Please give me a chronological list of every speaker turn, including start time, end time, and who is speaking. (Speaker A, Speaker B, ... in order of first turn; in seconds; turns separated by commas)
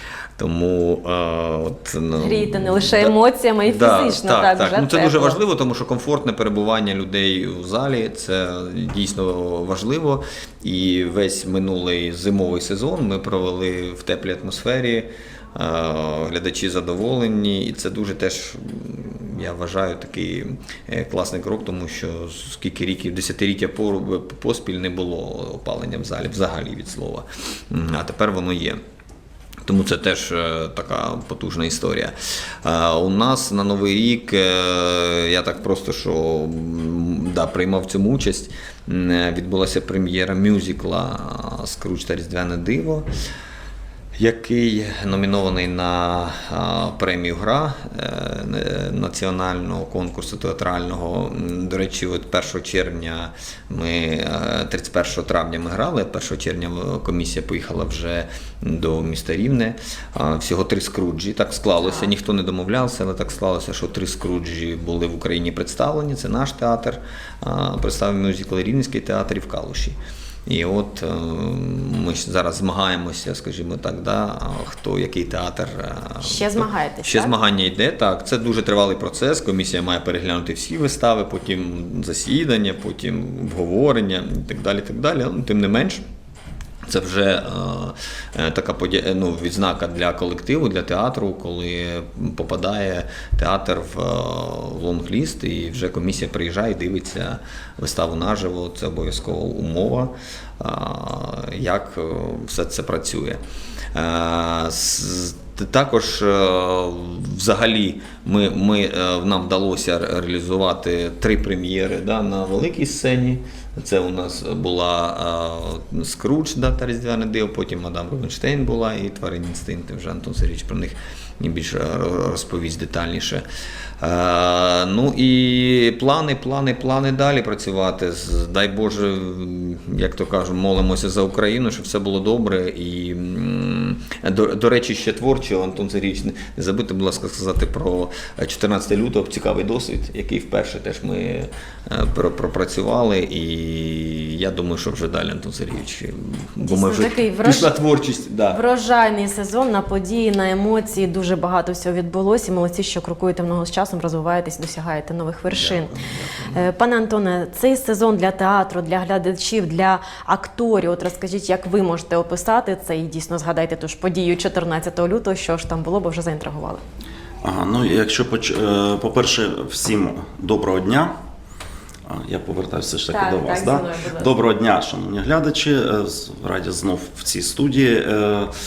Speaker A: 0.4-28.8, Speaker B: 2.2-5.4, Speaker A: 29.6-32.1, Speaker A: 32.6-43.0, Speaker A: 44.2-70.0, Speaker B: 61.8-62.1, Speaker A: 70.5-86.0, Speaker B: 76.2-77.3, Speaker A: 86.9-103.4, Speaker A: 103.9-123.4, Speaker A: 124.0-148.6, Speaker B: 146.6-147.7, Speaker B: 148.5-155.9, Speaker A: 155.5-156.7, Speaker B: 156.5-166.8, Speaker C: 167.4-171.1, Speaker C: 172.1-178.5, Speaker B: 173.1-174.3